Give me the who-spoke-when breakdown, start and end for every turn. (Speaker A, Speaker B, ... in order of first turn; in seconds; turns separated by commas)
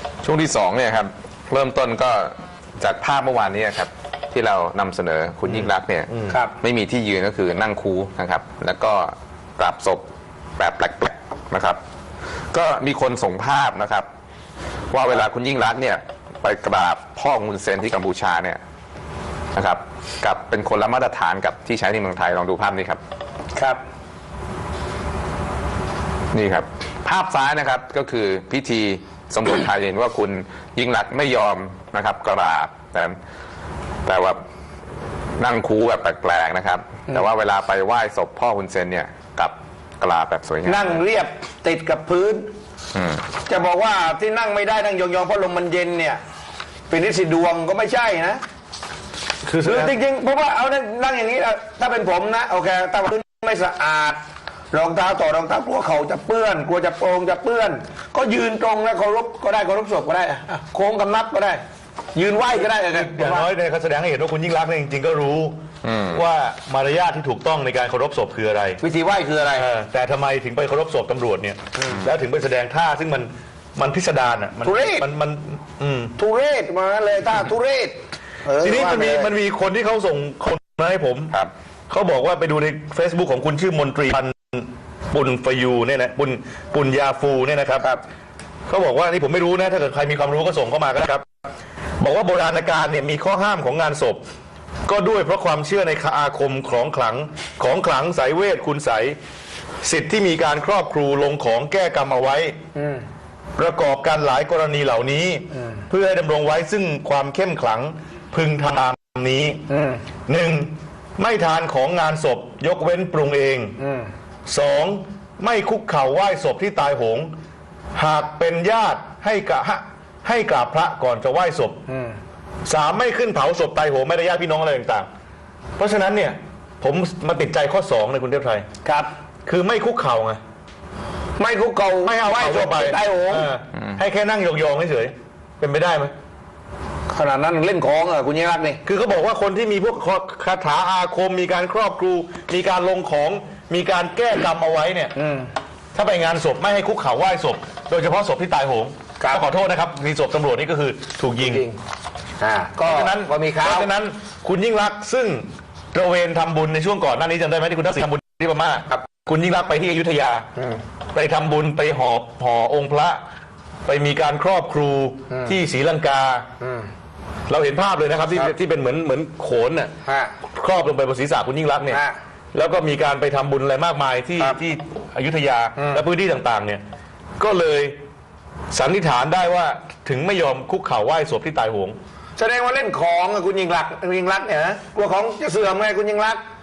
Speaker A: 0.2-10.0, Speaker B: 6.3-6.5, Speaker A: 10.6-11.8, Speaker A: 12.5-14.1, Speaker A: 14.9-18.6, Speaker A: 19.5-23.0, Speaker B: 23.5-23.8, Speaker A: 26.3-33.1, Speaker A: 34.0-34.4, Speaker A: 35.4-41.0, Speaker B: 40.6-42.5, Speaker A: 42.9-43.2, Speaker B: 43.5-46.2, Speaker B: 46.9-48.4, Speaker C: 49.4-49.9, Speaker B: 49.6-54.2, Speaker B: 54.7-61.6, Speaker B: 62.1-63.5, Speaker C: 62.8-65.5, Speaker A: 65.8-66.2, Speaker C: 66.1-68.8, Speaker B: 68.8-69.7, Speaker C: 69.5-76.1, Speaker B: 74.6-75.1, Speaker B: 76.2-79.3, Speaker C: 78.6-81.3, Speaker C: 81.9-87.9, Speaker C: 88.7-91.2, Speaker C: 92.0-94.2, Speaker C: 94.9-99.2, Speaker C: 99.8-102.6, Speaker B: 102.7-103.0, Speaker C: 103.6-109.6, Speaker B: 109.7-110.0, Speaker C: 110.3-113.7, Speaker B: 113.8-114.1, Speaker C: 114.5-117.3, Speaker C: 117.9-121.8, Speaker B: 121.9-122.2, Speaker C: 122.7-125.1, Speaker C: 125.8-128.6, Speaker B: 128.8-129.1, Speaker C: 129.4-130.4, Speaker B: 131.4-133.5, Speaker C: 132.0-136.1, Speaker B: 137.1-138.8, Speaker C: 138.8-145.1, Speaker B: 145.1-145.5, Speaker C: 145.9-151.6, Speaker B: 151.4-151.8, Speaker B: 152.4-153.9, Speaker C: 152.8-160.4, Speaker C: 161.1-163.2, Speaker C: 163.9-166.5, Speaker B: 165.3-165.6, Speaker B: 166.6-166.9, Speaker C: 167.5-169.9, Speaker B: 168.3-168.5, Speaker B: 170.0-170.3, Speaker C: 170.5-172.0, Speaker B: 171.9-172.2, Speaker C: 172.5-176.8, Speaker B: 175.8-176.0, Speaker C: 177.4-177.9, Speaker C: 178.7-182.0, Speaker B: 182.4-186.4